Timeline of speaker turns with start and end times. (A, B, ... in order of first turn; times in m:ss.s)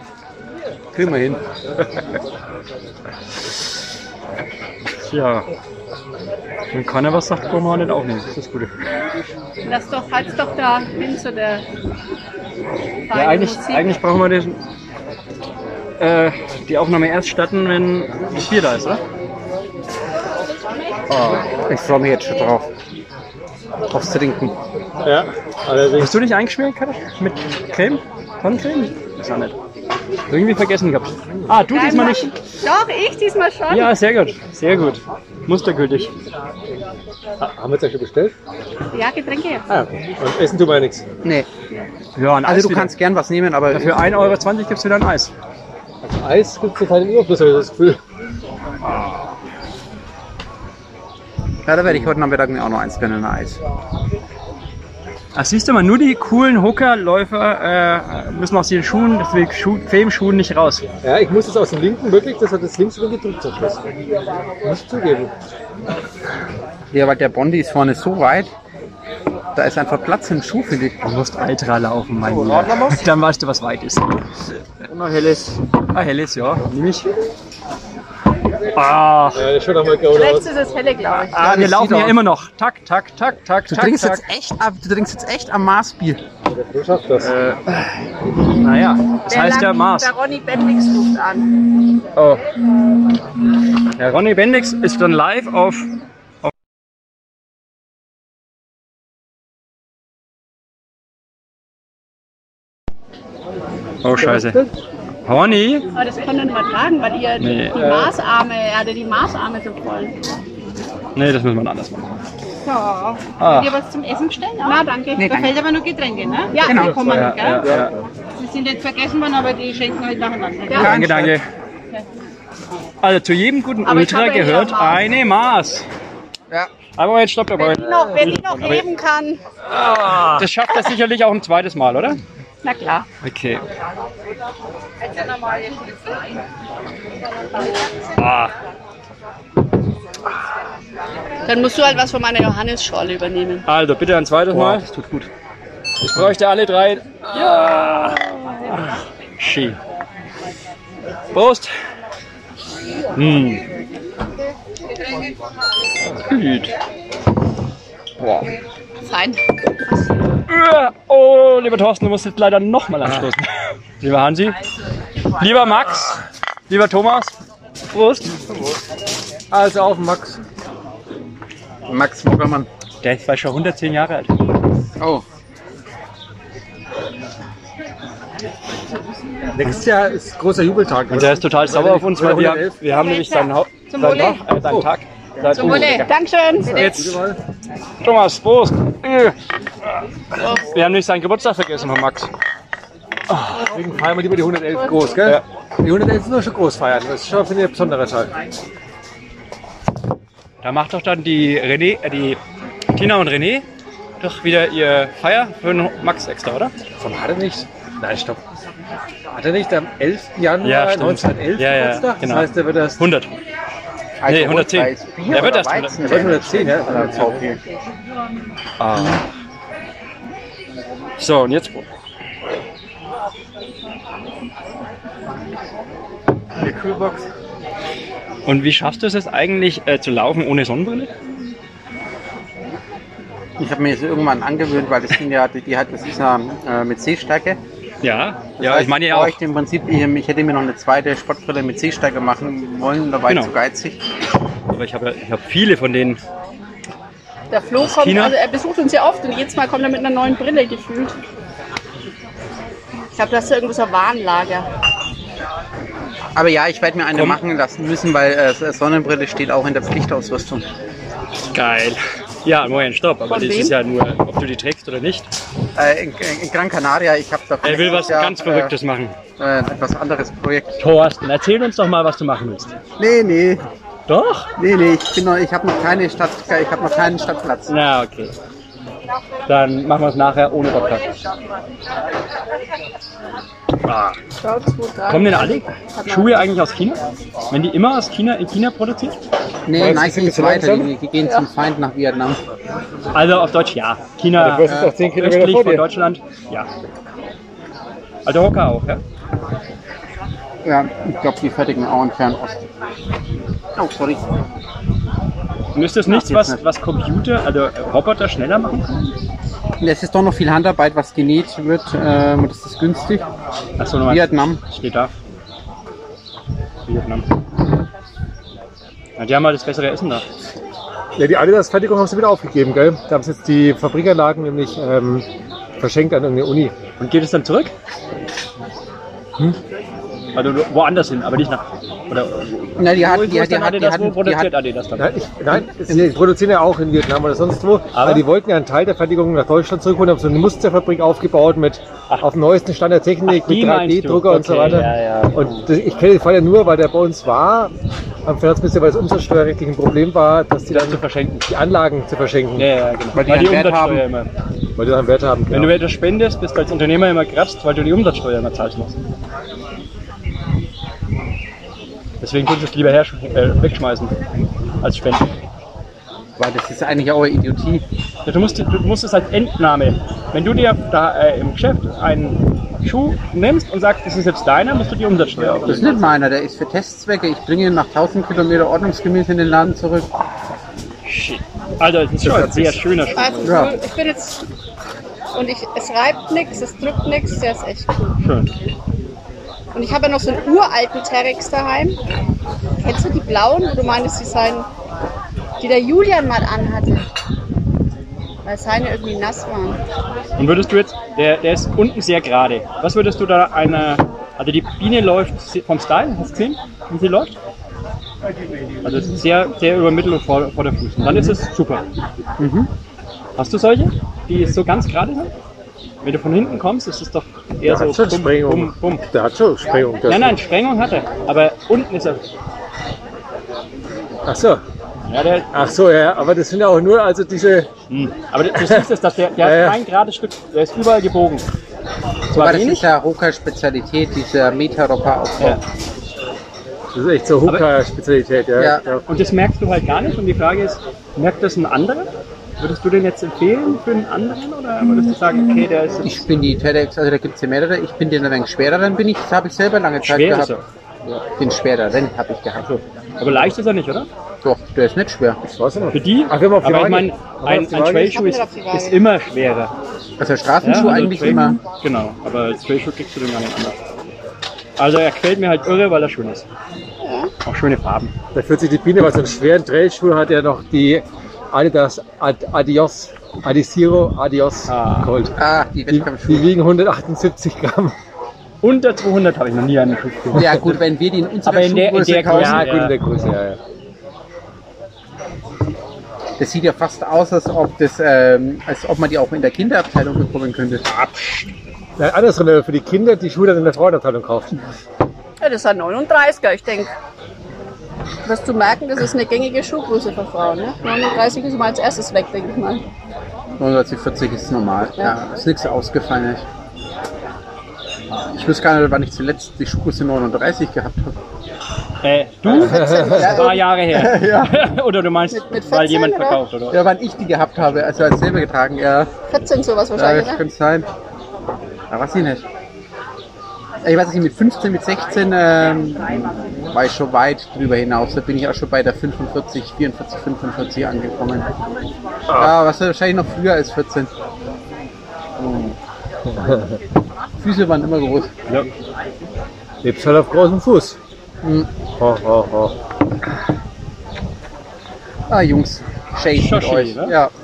0:00.9-0:01.3 A
0:05.0-0:05.5 A
0:06.7-0:08.7 A
0:09.6-0:11.6 B
0:13.1-0:14.0 B
0:13.1-0:14.6 A
0:16.0-0:19.0 A
0:21.1-0:22.7 C
0:23.9-0:24.5 C
0:25.0-0:26.1 D
0:26.0-0:29.5 A
0:30.3-0:32.3 A
0:31.7-0:33.9 B
0:33.7-0:36.1 A
0:37.4-0:38.3 D
0:38.9-0:39.6 B
0:39.7-0:41.0 D
0:41.2-0:41.5 C
0:42.2-0:42.9 A
0:42.4-0:44.3 C
0:43.7-0:45.3 A
0:46.0-0:48.0 D
0:51.6-0:53.6 C
0:55.3-1:00.8 A
1:01.0-1:03.9 D
1:04.6-1:05.3 D
1:06.9-1:08.5 C
1:09.5-1:11.0 C
1:11.0-1:14.4 A
1:12.2-1:13.0 D
1:15.9-1:17.1 A
1:18.7-1:19.4 A
1:19.3-1:20.5 D
1:20.1-1:21.5 B
1:21.3-1:24.2 A
1:21.4-1:22.2 C
1:23.7-1:26.2 C
1:26.5-1:27.3 D
1:27.2-1:30.1 A
1:29.3-1:31.5 B
1:32.2-1:32.4 A
1:33.9-1:36.5 A
1:44.0-1:44.6 A
1:44.2-1:44.7 D
1:45.2-1:45.9 A
1:45.9-1:50.2 B
1:47.4-1:48.1 A
1:51.1-1:52.2 A
1:52.6-1:54.0 B
1:52.7-1:54.7 E
1:53.4-1:53.8 A
1:54.6-1:57.6 B
1:55.2-1:55.6 C
1:55.7-1:57.6 E
1:56.6-1:57.5 C
1:57.0-1:57.9 A
1:58.4-2:00.7 E
1:58.4-1:59.2 B
2:00.1-2:01.1 B
2:00.7-2:01.4 C
2:00.7-2:01.5 A
2:03.0-2:05.8 A
2:03.8-2:05.0 B
2:07.0-2:08.8 A
2:07.6-2:09.4 B
2:09.8-2:12.2 A
2:09.8-2:10.4 D
2:12.6-2:13.0 B
2:13.2-2:13.6 A
2:18.2-2:18.5 A
2:21.4-2:23.7 B
2:23.6-2:25.2 A
2:24.5-2:25.1 C
2:26.0-2:29.8 A
2:31.3-2:31.7 A
2:33.1-2:33.6 A
2:36.0-2:36.7 A
2:38.2-2:38.5 A
2:39.0-2:39.4 B
2:40.5-2:43.4 A
2:44.0-2:44.6 A
2:45.4-2:47.3 A
2:47.9-2:48.3 A
2:49.5-2:50.4 D
2:51.8-2:52.7 C
2:53.0-2:54.3 A
2:55.0-2:55.2 C
2:59.5-3:02.8 D
3:01.1-3:06.1 A
3:03.0-3:03.4 E
3:04.0-3:04.9 D
3:04.0-3:04.3 E
3:05.4-3:06.1 D
3:05.5-3:07.1 B
3:06.7-3:07.1 A
3:06.7-3:07.4 D
3:08.0-3:09.3 A
3:10.4-3:10.6 B
3:10.4-3:12.3 A
3:13.3-3:13.6 A
3:13.5-3:18.3 D
3:20.6-3:22.4 A
3:22.9-3:23.6 A
3:24.2-3:26.7 A
3:27.0-3:28.4 D
3:29.3-3:33.0 D
3:30.6-3:33.3 A
3:34.2-3:37.6 C
3:34.2-3:36.4 A
3:36.0-3:37.4 D
3:38.8-3:39.2 A
3:41.2-3:41.9 A
3:46.7-3:47.2 D
3:48.4-3:51.1 A
3:53.6-3:57.6 C
3:58.0-3:59.4 A
3:58.6-4:04.0 C
4:04.7-4:06.2 A
4:07.5-4:11.1 B
4:07.8-4:08.4 A
4:13.1-4:14.7 B
4:16.3-4:20.6 C
4:17.1-4:17.4 A
4:21.5-4:25.3 A
4:23.3-4:23.7 B
4:25.8-4:28.7 C
4:27.6-4:29.2 A
4:29.4-4:30.8 C
4:30.8-4:32.7 A
4:33.0-4:33.6 C
4:34.1-4:34.5 A
4:34.6-4:37.7 C
4:37.7-4:38.3 A
4:39.5-4:41.0 A
4:43.8-4:44.2 A
4:44.4-4:46.4 B
4:45.1-4:49.2 A
4:49.6-4:52.4 C
4:49.7-4:50.9 D
4:53.1-4:56.7 A
4:54.4-4:55.9 D
4:54.6-4:54.9 C
4:58.2-4:59.0 A
5:00.6-5:02.6 C
5:03.8-5:04.2 C
5:05.7-5:09.1 A
5:06.0-5:06.6 C
5:09.8-5:13.2 C
5:13.8-5:15.1 A
5:14.0-5:14.6 C
5:16.8-5:17.2 A
5:19.2-5:20.2 A
5:21.2-5:25.2 D
5:25.8-5:26.7 D
5:27.0-5:27.7 A
5:30.3-5:35.1 A
5:32.8-5:34.5 C
5:35.0-5:47.7 D
5:35.5-5:36.1 C
5:37.9-5:38.2 A
5:43.2-5:45.6 A
5:48.2-5:52.7 D
5:50.7-5:51.5 A
5:52.5-5:54.3 A
5:53.1-5:54.0 C
5:54.8-5:55.8 D
5:55.5-5:59.0 A
6:02.2-6:04.2 A
6:04.8-6:05.3 A
6:06.4-6:07.8 C
6:08.2-6:16.1 A
6:15.6-6:20.1 C
6:21.0-6:23.7 A
6:22.2-6:23.0 D
6:23.2-6:24.4 B
6:23.4-6:23.7 C
6:25.3-6:28.1 B
6:28.2-6:28.5 A
6:29.7-6:32.0 B
6:32.8-6:34.7 B
6:35.6-6:37.0 B
6:38.4-6:39.8 B
6:40.4-6:47.3 A
6:48.8-6:51.8 A
6:51.1-6:51.4 C
6:52.4-6:52.7 C
6:53.4-6:55.3 A
6:56.0-6:59.0 A
6:57.6-7:00.4 D
7:00.1-7:02.2 A
7:04.2-7:04.6 D
7:05.1-7:05.5 A
7:05.5-7:07.7 D
7:07.9-7:11.4 A
7:08.6-7:08.9 D
7:09.4-7:09.8 D
7:12.3-7:15.6 C
7:12.3-7:12.9 A
7:16.9-7:19.0 D
7:18.6-7:18.8 C
7:19.0-7:26.2 A
7:26.0-7:30.6 C
7:30.0-7:30.6 A
7:31.4-7:32.7 C
7:32.6-7:34.1 A
7:34.4-7:35.4 C
7:35.4-7:38.2 D
7:35.9-7:39.7 A
7:38.0-7:39.0 B
7:40.2-7:41.6 C
7:40.6-7:43.8 A
7:44.8-7:46.4 A
7:47.0-7:47.3 B
7:47.4-7:48.1 A
7:48.3-7:55.4 D
7:54.7-7:55.1 A
7:55.4-7:56.5 C
7:55.9-7:58.0 D
7:58.6-8:00.6 A
8:00.3-8:02.7 C
8:01.4-8:03.0 A
8:02.3-8:03.6 D
8:06.4-8:10.8 C
8:11.0-8:11.4 A
8:12.0-8:14.6 D
8:15.4-8:16.9 B
8:18.2-8:22.8 B
8:23.6-8:26.4 C
8:28.3-8:31.1 C
8:32.0-8:36.8 A
8:32.4-8:34.6 C
8:32.6-8:33.4 D
8:35.3-8:36.4 B
8:36.7-8:39.1 C
8:39.3-8:40.4 B
8:39.9-8:40.9 C
8:41.9-8:42.4 C
8:43.8-8:51.5 C
8:52.3-8:52.5 D
8:52.3-8:54.1 C
8:55.4-8:55.7 C
8:56.3-8:56.8 D
8:57.4-8:58.3 C
8:59.8-9:01.0 D
9:01.4-9:01.7 C
9:02.0-9:02.7 D
9:05.3-9:07.3 C
9:06.3-9:07.2 A